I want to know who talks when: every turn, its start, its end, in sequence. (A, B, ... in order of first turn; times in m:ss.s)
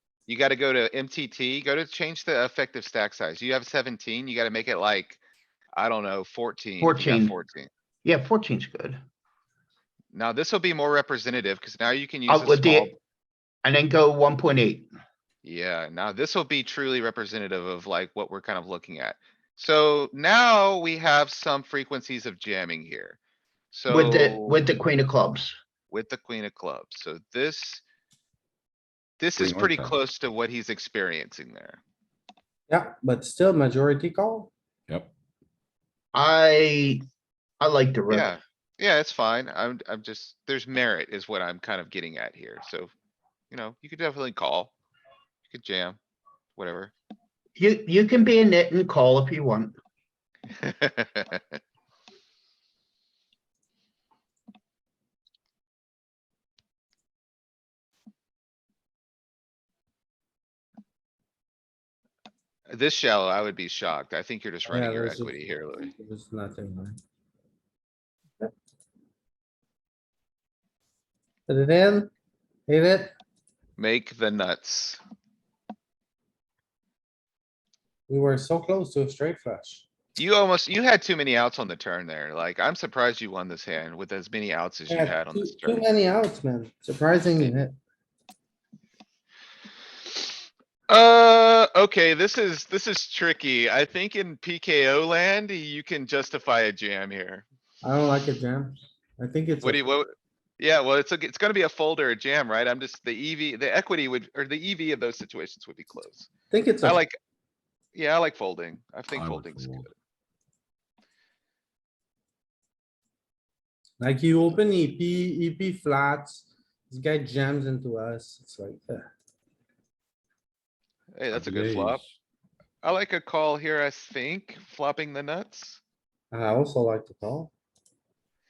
0:00.3-0:05.2 A
0:05.8-0:07.7 A
0:06.8-0:07.3 B
0:08.0-0:09.0 B
0:10.1-0:13.0 A
0:12.3-0:12.9 B
0:13.6-0:14.9 B
0:15.4-0:23.2 A
0:23.7-0:24.7 A
0:23.9-0:25.5 B
0:25.9-0:27.8 A
0:29.2-0:31.8 A
0:29.4-0:29.9 C
0:32.7-0:34.5 D
0:36.1-0:37.0 B
0:37.6-0:38.3 B
0:38.1-0:42.9 A
0:43.5-0:44.7 A
0:45.5-0:46.0 A
0:46.6-0:46.9 A
0:47.6-0:49.8 B
0:50.6-0:51.4 A
1:02.7-1:05.9 A
1:04.6-1:07.0 D
1:11.5-1:12.1 D
1:12.7-1:13.1 D
1:13.8-1:15.0 A
1:18.1-1:19.9 D
1:20.2-1:25.9 A
1:24.9-1:27.8 D
1:30.9-1:37.4 A
1:37.8-1:39.8 D
1:39.6-1:46.3 A
1:46.5-1:47.0 D
1:46.8-1:47.1 A
1:48.0-1:49.9 A
1:49.1-1:49.9 C
1:54.0-1:59.1 D
2:01.1-2:02.0 A
2:01.3-2:02.1 C
2:02.8-2:05.8 A
2:06.3-2:07.5 D